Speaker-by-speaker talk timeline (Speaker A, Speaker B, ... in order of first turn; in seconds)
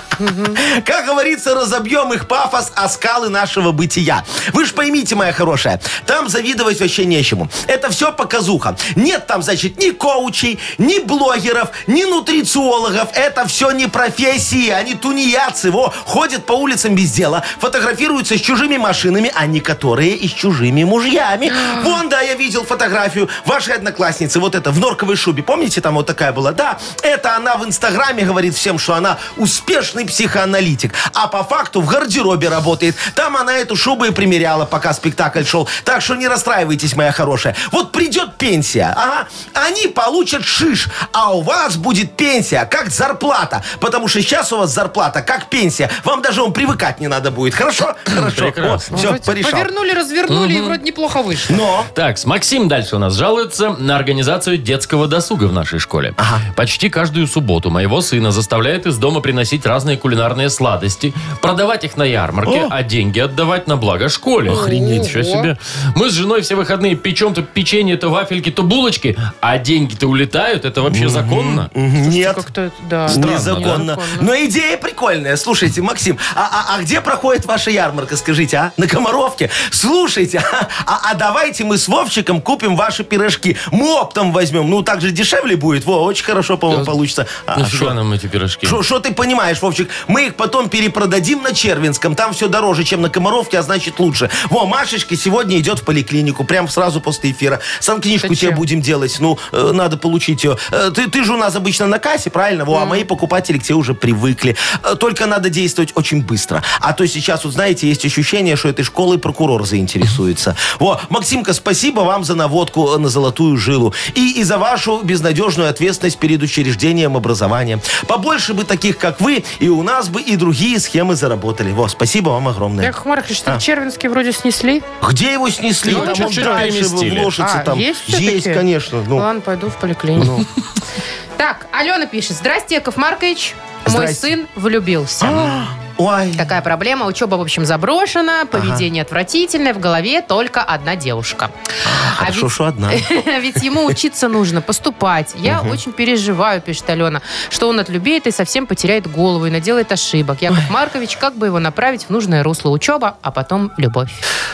Speaker A: 0.2-0.6, 48.9-51.6, 64.5-65.5, 72.0-74.3, 98.2-98.6, 102.7-103.0, 122.8-124.8, 125.9-126.7, 127.4-130.4, 131.4-135.7, 136.4-154.2
Speaker B: 0.5-49.7, 51.5-51.9, 56.2-56.4, 62.4-62.8, 64.5-65.1, 70.9-72.4, 73.1-88.0, 88.6-123.6, 125.0-129.3, 130.2-130.4, 133.8-134.3, 135.2-136.5, 138.5-138.9, 141.8-143.1, 145.4-145.8
Speaker C: 48.1-49.0, 50.3-50.8, 51.9-71.7, 73.1-73.8, 87.5-88.8, 125.8-127.3